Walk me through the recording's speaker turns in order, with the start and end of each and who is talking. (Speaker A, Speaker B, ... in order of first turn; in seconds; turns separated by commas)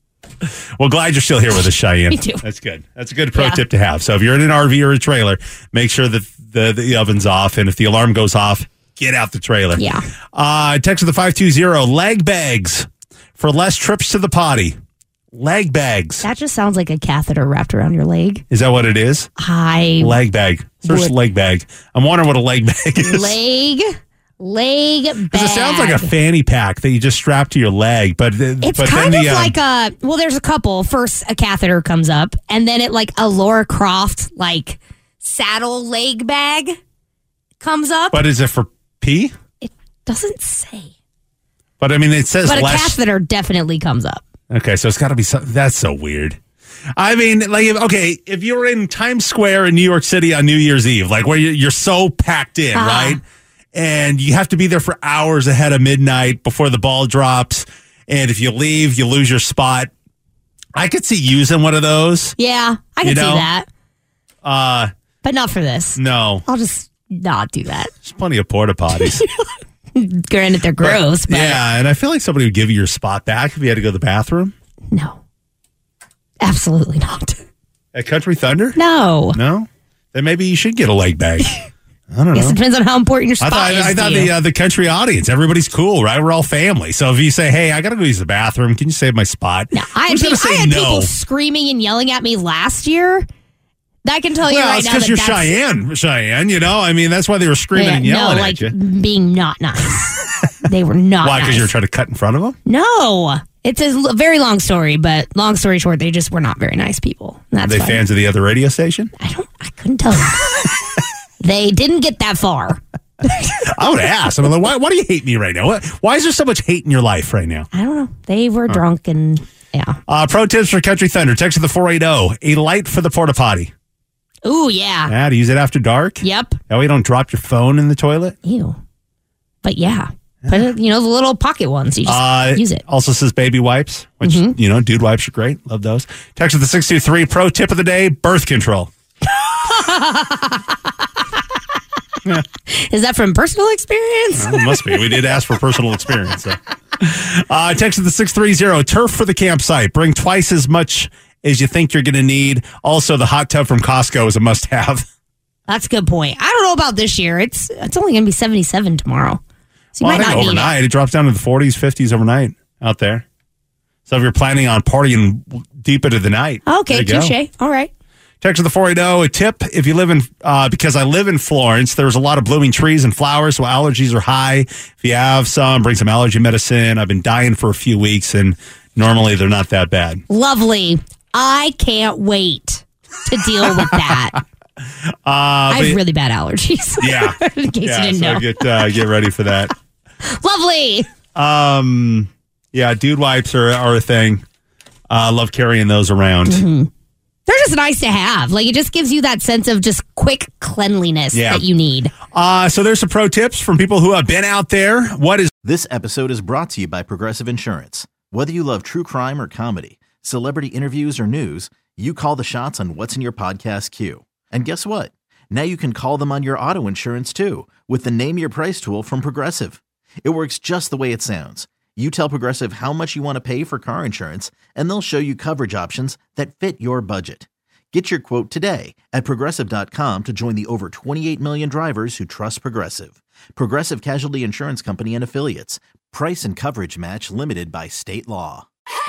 Speaker A: 0.4-12.9, Speaker B: 2.1-2.4, Speaker B: 3.3-3.6, Speaker B: 9.8-10.0, Speaker A: 13.4-14.8, Speaker A: 15.3-16.2, Speaker B: 16.2-18.4, Speaker A: 18.5-19.3, Speaker B: 19.4-20.2, Speaker A: 20.0-23.4, Speaker B: 20.8-21.1, Speaker B: 23.0-26.1, Speaker A: 25.3-29.6, Speaker B: 28.6-36.8, Speaker B: 37.6-38.2, Speaker A: 38.1-39.3, Speaker B: 39.6-40.9, Speaker A: 41.8-43.0, Speaker B: 42.4-44.2, Speaker A: 44.5-46.4, Speaker A: 47.0-53.2, Speaker B: 52.7-53.2, Speaker A: 53.7-59.9, Speaker A: 60.8-62.4, Speaker B: 62.4-63.7, Speaker A: 63.0-63.5, Speaker A: 64.4-64.9, Speaker B: 65.2-67.9, Speaker A: 66.0-66.5, Speaker A: 68.0-69.3, Speaker B: 69.0-69.4, Speaker B: 69.9-71.6, Speaker A: 70.8-74.5, Speaker B: 74.9-75.2, Speaker B: 76.4-77.4, Speaker A: 77.9-78.8, Speaker B: 78.7-79.4, Speaker A: 79.3-81.5, Speaker A: 82.1-82.6, Speaker B: 82.3-84.3, Speaker A: 83.4-91.1, Speaker B: 89.7-93.2, Speaker B: 94.0-95.5, Speaker A: 94.5-98.7, Speaker B: 97.7-101.7, Speaker A: 101.2-102.5, Speaker B: 102.7-108.0, Speaker A: 107.6-109.1, Speaker B: 109.2-110.7, Speaker B: 111.4-112.8, Speaker A: 113.6-117.7, Speaker B: 117.7-120.0, Speaker A: 120.1-123.7, Speaker B: 124.4-125.1, Speaker A: 125.1-128.4, Speaker B: 126.2-126.6, Speaker B: 128.4-128.8, Speaker B: 129.6-132.8, Speaker A: 130.4-130.7, Speaker A: 132.1-138.9, Speaker B: 134.2-134.6, Speaker B: 139.4-140.9, Speaker B: 142.7-145.1, Speaker A: 144.3-155.1, Speaker B: 155.7-159.4, Speaker B: 159.9-160.8, Speaker A: 160.0-163.2, Speaker A: 164.1-167.3, Speaker B: 166.7-167.9, Speaker A: 168.4-180.2, Speaker B: 180.3-184.4, Speaker A: 183.8-184.1, Speaker A: 185.2-186.0, Speaker B: 185.7-188.6, Speaker A: 187.0-189.7, Speaker B: 190.2-191.1, Speaker A: 191.3-194.4, Speaker A: 195.1-196.6, Speaker B: 196.4-196.9, Speaker B: 197.5-202.1, Speaker A: 201.3-201.6, Speaker A: 202.3-205.5, Speaker C: 205.6-238.7